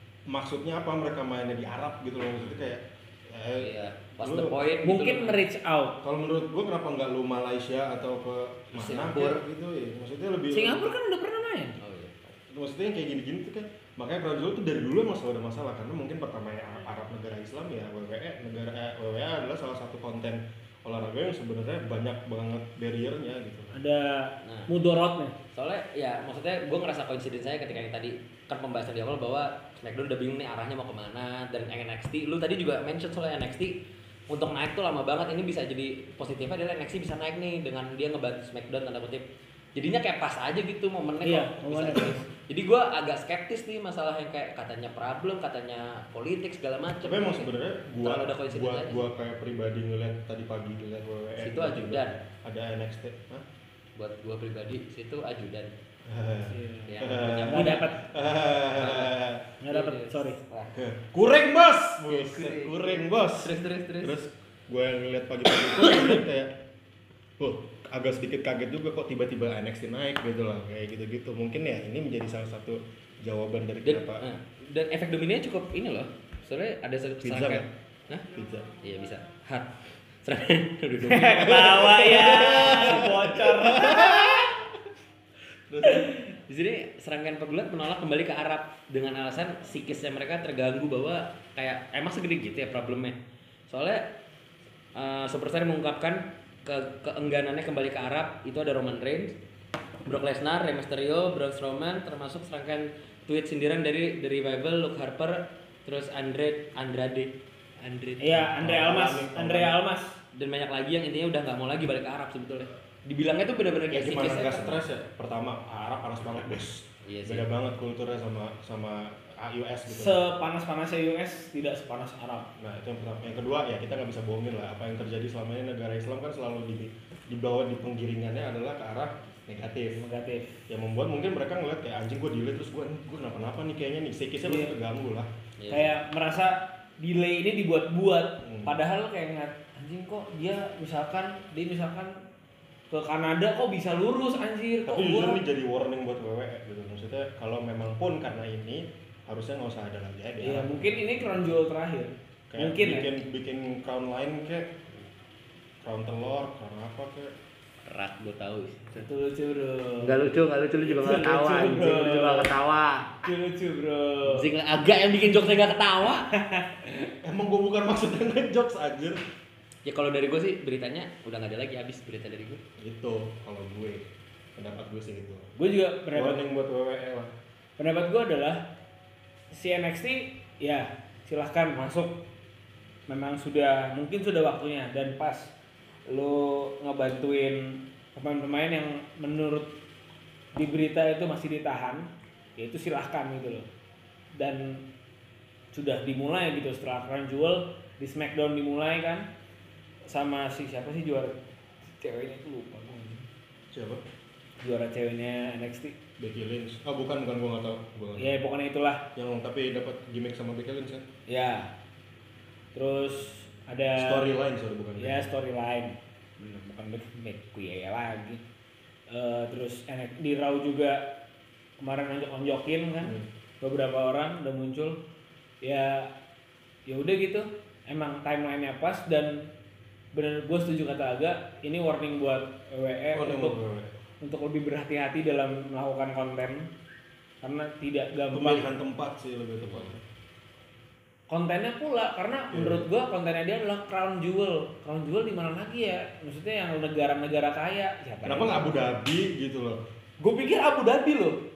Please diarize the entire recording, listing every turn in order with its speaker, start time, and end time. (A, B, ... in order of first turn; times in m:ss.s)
0:00.3-0:04.6 A
0:03.6-0:05.4 B
0:04.8-0:06.0 C
0:06.0-0:10.9 A
0:08.7-0:09.4 B
0:10.5-0:11.8 C
0:11.8-0:12.2 B
0:12.3-0:23.7 A
0:23.7-0:25.4 C
0:24.4-0:24.7 B
0:25.5-0:33.8 B
0:34.3-0:49.1 B
0:41.2-0:42.3 C
0:47.0-0:53.4 A
0:51.4-0:52.2 B
0:54.0-0:55.7 B
0:56.1-0:59.6 A
0:56.5-0:58.0 C
0:56.9-0:58.2 B
0:58.7-0:59.2 B
0:59.6-1:00.4 C
0:59.7-1:00.7 B
1:00.7-1:06.5 A
1:02.0-1:04.2 B
1:07.4-1:14.2 A
1:13.8-1:18.2 B
1:17.2-1:17.7 A
1:18.3-1:18.7 A
1:18.8-1:21.9 B
1:21.0-1:24.5 C
1:21.2-1:24.7 A
1:22.8-1:23.1 B
1:25.7-1:26.1 A
1:25.8-1:33.2 B
1:33.7-1:34.1 B
1:35.0-1:39.4 B
1:40.1-1:48.5 B
1:48.2-1:50.2 C
1:48.5-1:49.8 A
1:50.3-1:54.8 B
1:53.9-2:00.2 A
1:57.0-1:57.5 B
1:59.9-2:02.5 C
2:02.6-2:10.0 A
2:10.0-2:10.6 C
2:10.7-2:15.3 A
2:14.4-2:14.7 C
2:15.6-2:16.0 B
2:15.7-2:22.2 C
2:18.4-2:18.8 A
2:22.9-2:25.4 C
2:24.9-2:31.5 A
2:30.4-2:33.1 C
2:32.5-2:34.8 A
2:35.8-2:37.3 A
2:37.9-2:39.1 B
2:39.0-2:42.5 C
2:40.0-2:43.1 B
2:43.2-2:44.5 C
2:44.3-2:46.3 B
2:45.3-2:45.6 C
2:46.3-2:47.1 C
2:47.2-2:49.2 A
2:49.8-2:52.6 B
2:52.8-2:55.5 A
2:55.6-2:56.4 C
2:56.1-2:57.3 A
2:57.8-2:58.6 C
2:59.5-3:02.2 C
3:03.1-3:05.5 C
3:06.1-3:09.8 C
3:10.5-3:13.7 C
3:14.4-3:14.8 C
3:15.7-3:19.3 C
3:20.1-3:21.4 C
3:21.9-3:23.2 C
3:23.7-3:24.0 A
3:24.6-3:26.0 C
3:26.2-3:28.4 A
3:28.2-3:29.1 C
3:29.1-3:31.1 A
3:31.3-3:31.7 C
3:32.7-3:34.3 C
3:34.0-3:35.3 A
3:35.0-3:38.4 C
3:39.1-3:41.1 C
3:41.8-3:45.0 C
3:45.6-3:46.1 C
3:46.9-3:49.5 C
3:50.1-3:53.6 C
3:53.1-3:53.9 A
3:54.2-3:56.7 C
3:57.4-3:58.7 C
3:58.3-4:00.0 A
4:01.3-4:08.9 C
4:02.5-4:02.9 A
4:08.2-4:09.8 A
4:10.2-4:11.4 C